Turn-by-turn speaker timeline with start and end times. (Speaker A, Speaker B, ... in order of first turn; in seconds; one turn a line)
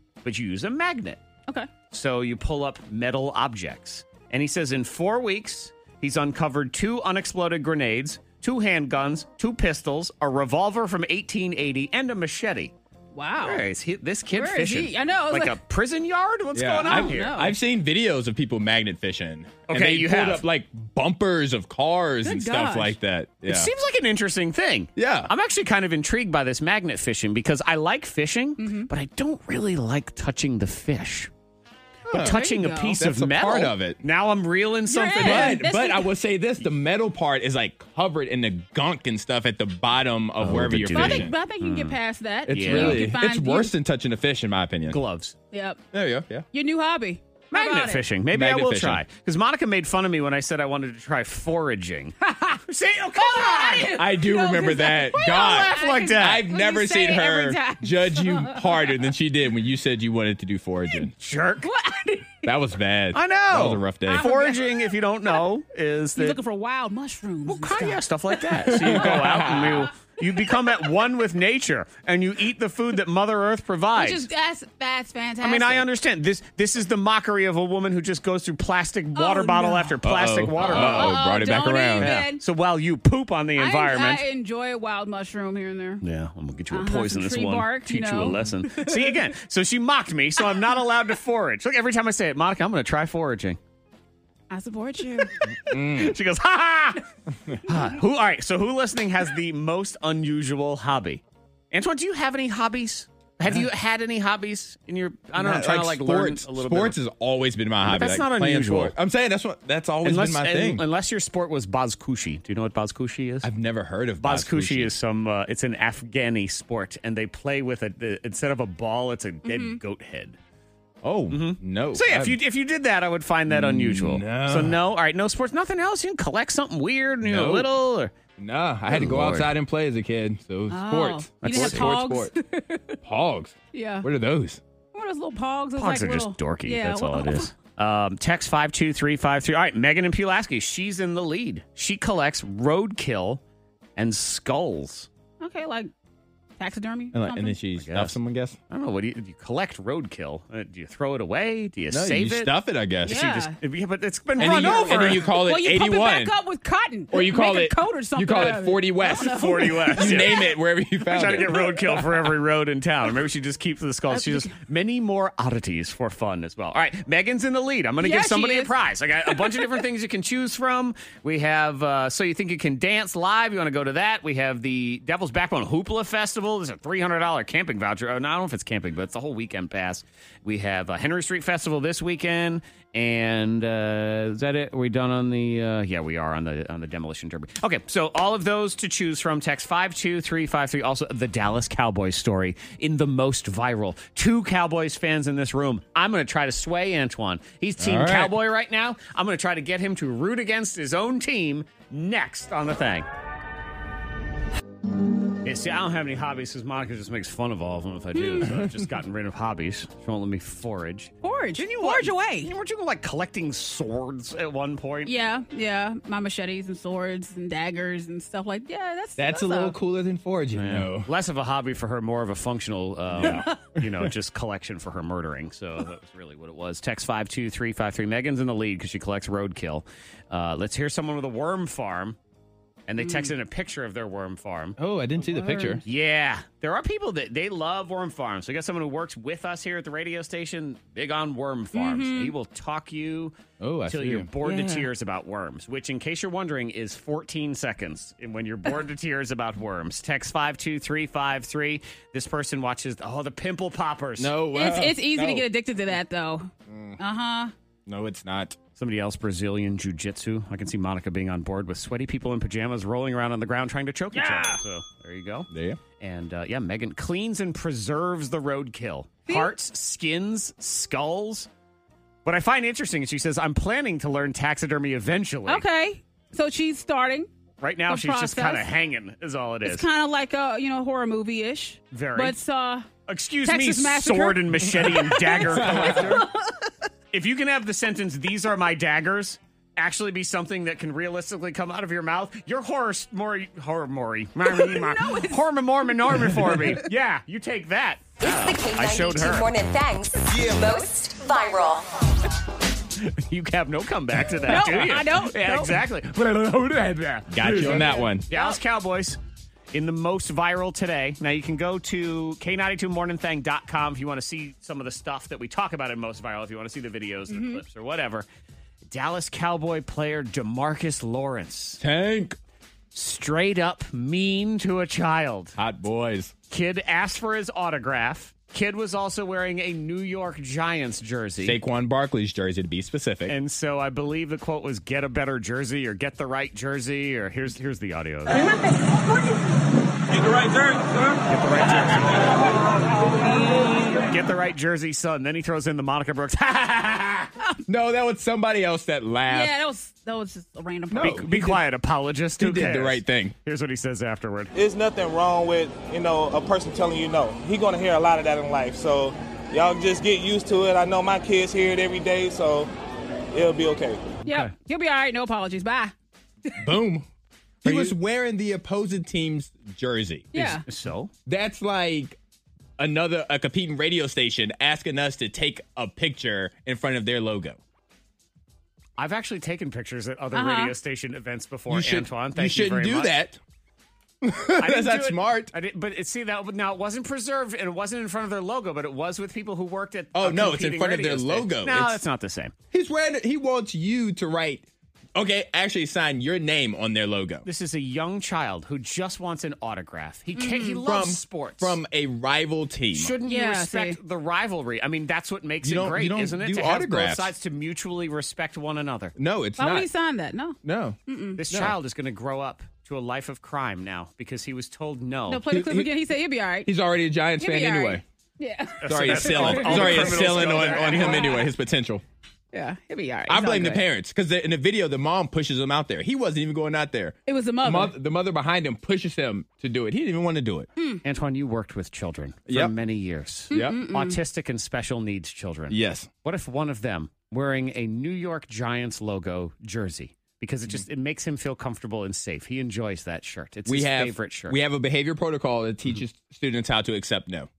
Speaker A: 0.2-1.2
Speaker A: 1.9-12.7
Speaker B: 13.1-13.6
Speaker A: 13.4-17.4
Speaker B: 14.3-15.6
Speaker C: 16.5-23.7
Speaker B: 16.8-17.5
Speaker A: 19.7-20.4
Speaker B: 22.2-23.0
Speaker A: 23.4-31.3
Speaker C: 25.0-25.3
Speaker B: 28.6-28.9
Speaker B: 32.1-33.0
Speaker C: 32.1-32.4
Speaker A: 32.1-35.6
Speaker C: 33.0-34.0
Speaker B: 34.9-36.1
Speaker C: 35.2-41.9
Speaker A: 40.4-41.3
Speaker B: 40.9-43.7
Speaker C: 42.5-45.0
Speaker A: 42.5-43.0
Speaker A: 44.9-45.3
Speaker B: 45.5-45.8
Speaker C: 45.9-46.4
Speaker B: 46.5-48.0
Speaker A: 47.5-54.0
Speaker C: 48.3-49.0
Speaker B: 52.2-52.6
Speaker B: 53.2-58.8
Speaker C: 53.9-61.1
Speaker A: 55.2-56.4
Speaker A: 61.2-61.7
Speaker B: 61.6-62.5
Speaker C: 62.4-64.3
Speaker A: 63.1-66.4
Speaker B: 64.1-65.4
Speaker B: 66.2-68.0
Speaker A: 67.5-74.3
Speaker B: 68.6-69.9
Speaker C: 68.7-69.9
Speaker B: 74.0-75.8
Speaker A: 75.4-81.2
Speaker B: 79.2-80.0
Speaker C: 80.0-82.1
Speaker B: 80.6-82.4
Speaker A: 82.0-84.2
Speaker B: 83.6-86.0
Speaker A: 86.0-93.6
Speaker B: 86.7-89.2
Speaker B: 94.5-95.3
Speaker A: 95.5-97.0
Speaker C: 95.6-96.2
Speaker A: 97.7-107.0
Speaker C: 105.3-110.8
Speaker A: 107.8-108.9
Speaker A: 110.0-113.5
Speaker C: 113.4-114.9
Speaker A: 114.2-120.4
Speaker B: 119.4-119.8
Speaker C: 121.0-122.4
Speaker A: 121.3-128.1
Speaker C: 123.5-124.8
Speaker C: 127.2-127.7
Speaker C: 128.4-132.3
Speaker A: 128.9-129.5
Speaker B: 130.7-133.0
Speaker A: 131.4-131.9
Speaker C: 133.0-134.6
Speaker B: 133.7-134.1
Speaker B: 134.9-137.5
Speaker A: 135.8-143.4
Speaker A: 144.0-145.1
Speaker B: 145.4-145.9
Speaker B: 146.6-147.6
Speaker C: 147.1-148.6
Speaker A: 147.8-148.2
Speaker A: 148.7-152.5
Speaker C: 151.9-153.3
Speaker B: 153.0-153.6
Speaker A: 153.1-155.2
Speaker C: 154.4-156.3
Speaker B: 154.4-160.4
Speaker C: 157.1-161.9
Speaker A: 159.2-160.5
Speaker A: 161.1-203.1
Speaker B: 164.1-164.5
Speaker B: 168.0-168.7
Speaker C: 197.8-198.3
Speaker A: 205.4-215.1
Speaker B: 208.1-208.5
Speaker C: 208.5-208.8
Speaker B: 211.2-212.5
Speaker B: 215.0-219.8
Speaker C: 219.2-221.1
Speaker A: 220.5-232.2
Speaker C: 223.2-223.8
Speaker B: 223.3-223.6
Speaker A: 232.9-234.8
Speaker B: 233.0-233.3
Speaker C: 234.8-235.8
Speaker B: 235.2-235.8
Speaker A: 235.8-243.3
Speaker B: 241.7-242.3
Speaker C: 243.6-244.3
Speaker A: 243.9-254.3
Speaker B: 244.4-244.8
Speaker C: 254.2-255.5
Speaker B: 254.5-257.5
Speaker C: 256.7-257.0
Speaker C: 257.9-258.6
Speaker A: 258.8-265.5
Speaker B: 264.1-264.6
Speaker C: 265.5-265.8
Speaker A: 266.0-271.5
Speaker B: 269.3-269.5
Speaker A: 272.2-275.6
Speaker B: 275.5-277.3
Speaker A: 277.6-279.9
Speaker B: 277.9-278.7
Speaker B: 279.6-282.9
Speaker A: 281.9-282.4
Speaker A: 283.1-286.2
Speaker B: 283.4-286.7
Speaker C: 285.6-286.2
Speaker A: 287.1-299.5
Speaker B: 294.5-296.7
Speaker D: 298.2-301.8
Speaker A: 303.0-309.2
Speaker B: 304.5-305.8
Speaker C: 307.3-308.3
Speaker B: 307.7-308.6
Speaker A: 309.7-318.2
Speaker B: 317.3-317.6
Speaker A: 318.9-321.8
Speaker C: 321.8-322.4
Speaker A: 322.9-325.6
Speaker C: 325.6-326.3
Speaker A: 326.5-331.6
Speaker C: 331.4-333.3
Speaker A: 333.3-338.4
Speaker A: 341.3-342.5
Speaker A: 343.7-347.3
Speaker C: 347.7-349.5
Speaker B: 349.3-351.2
Speaker C: 350.9-351.6
Speaker A: 351.0-354.5
Speaker C: 352.4-353.3
Speaker E: 354.5-362.7
Speaker E: 363.3-364.1
Speaker B: 364.2-365.9
Speaker A: 364.2-364.5
Speaker C: 366.6-367.1
Speaker C: 367.6-370.6
Speaker A: 367.6-367.9
Speaker B: 370.3-370.6
Speaker A: 370.6-371.1
Speaker C: 371.2-372.2
Speaker C: 372.8-377.6
Speaker A: 379.0-383.1
Speaker B: 380.3-380.7
Speaker C: 381.7-383.4
Speaker C: 384.2-385.5
Speaker A: 384.6-392.5
Speaker C: 390.1-392.0
Speaker C: 392.7-397.4
Speaker A: 397.4-401.8
Speaker B: 400.4-400.8
Speaker C: 400.8-403.1
Speaker A: 402.9-409.1
Speaker B: 403.2-404.0
Speaker C: 405.6-407.3
Speaker C: 409.1-409.9
Speaker B: 409.6-411.4
Speaker C: 410.6-411.0
Speaker A: 411.4-415.5
Speaker C: 411.5-411.8
Speaker B: 415.3-416.7
Speaker C: 415.5-415.9
Speaker C: 416.6-418.0
Speaker B: 417.4-421.5
Speaker A: 418.8-421.4
Speaker C: 418.8-422.0
Speaker B: 422.5-423.8
Speaker C: 423.3-430.7
Speaker B: 427.2-427.9
Speaker B: 430.8-431.0
Speaker A: 431.0-444.6
Speaker C: 432.5-432.7
Speaker C: 433.5-433.8
Speaker B: 433.5-434.2
Speaker C: 435.7-436.1
Speaker C: 443.7-447.5